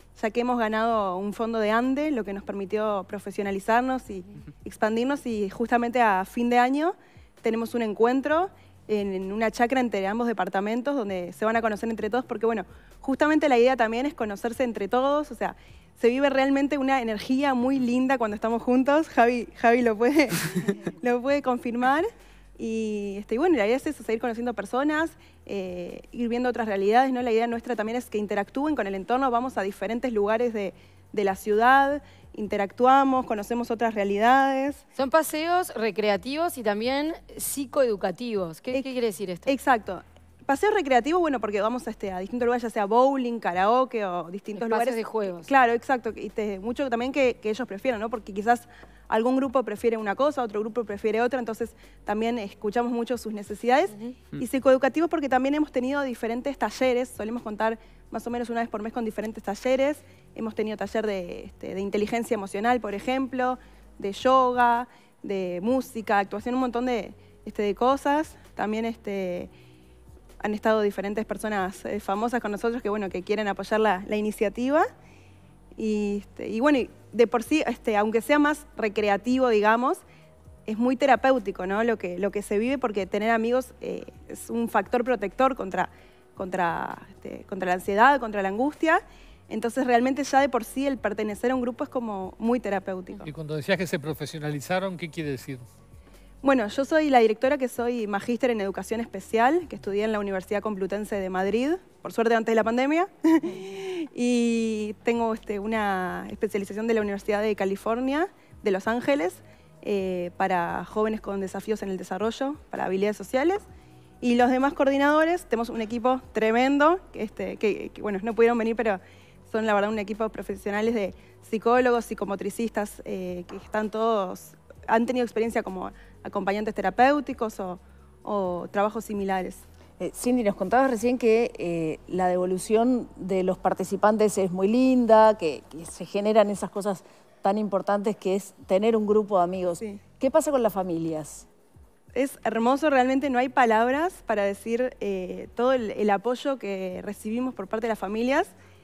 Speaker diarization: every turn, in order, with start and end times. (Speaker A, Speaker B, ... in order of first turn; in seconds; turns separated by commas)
Speaker A: 0.1-34.8, Speaker B: 35.0-39.5, Speaker A: 39.5-69.5, Speaker B: 44.5-45.5, Speaker A: 70.4-74.9, Speaker A: 75.8-80.0, Speaker A: 80.7-93.3, Speaker C: 93.2-95.6, Speaker A: 96.4-113.6, Speaker A: 114.2-129.6, Speaker D: 130.0-141.4, Speaker A: 142.1-148.5